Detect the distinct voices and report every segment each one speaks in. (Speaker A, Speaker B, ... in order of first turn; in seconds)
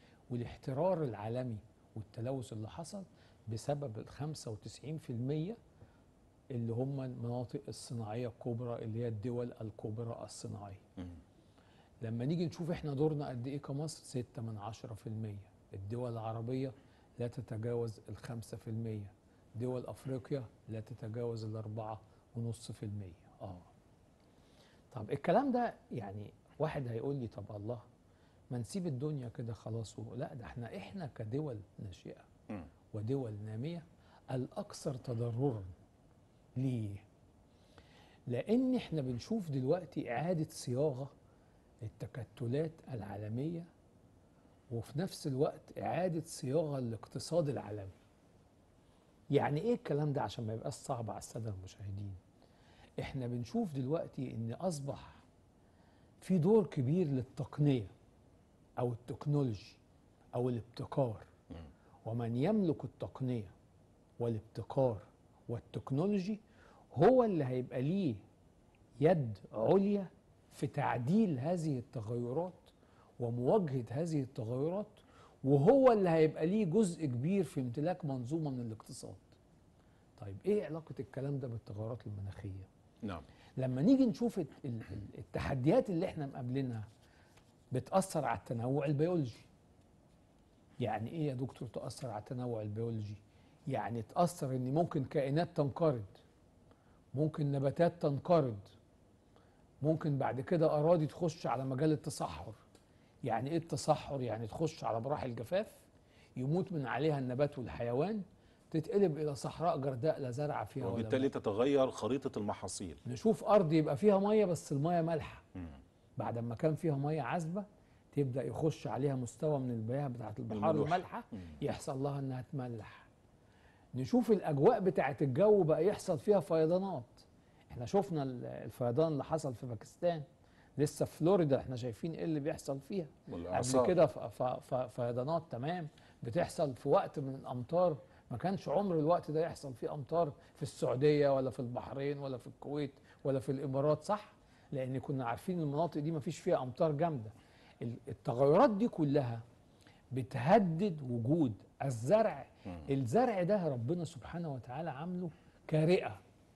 Speaker A: 0.3-5.6, 6.5-10.8, 12.0-23.7, 24.9-27.8, 28.5-32.3, 32.9-35.7, 36.6-37.0, 38.3-41.1, 41.8-43.7, 44.7-47.9, 49.3-52.2, 53.0-55.2, 56.2-57.9, 58.8-59.8, 60.3-61.3, 62.0-63.5, 64.2-66.4, 66.9-68.2, 69.0-79.3, 80.2-82.7, 83.6-86.8, 87.7-89.5, 90.8-96.2, 97.1-98.7, 99.8-102.6, 103.2-105.8, 106.4-111.3, 113.0-115.4, 116.2-123.1, 123.9-130.2, 130.8-149.4, 150.1-156.2
Speaker B: 110.8-113.0, 120.5-121.5, 133.3-133.9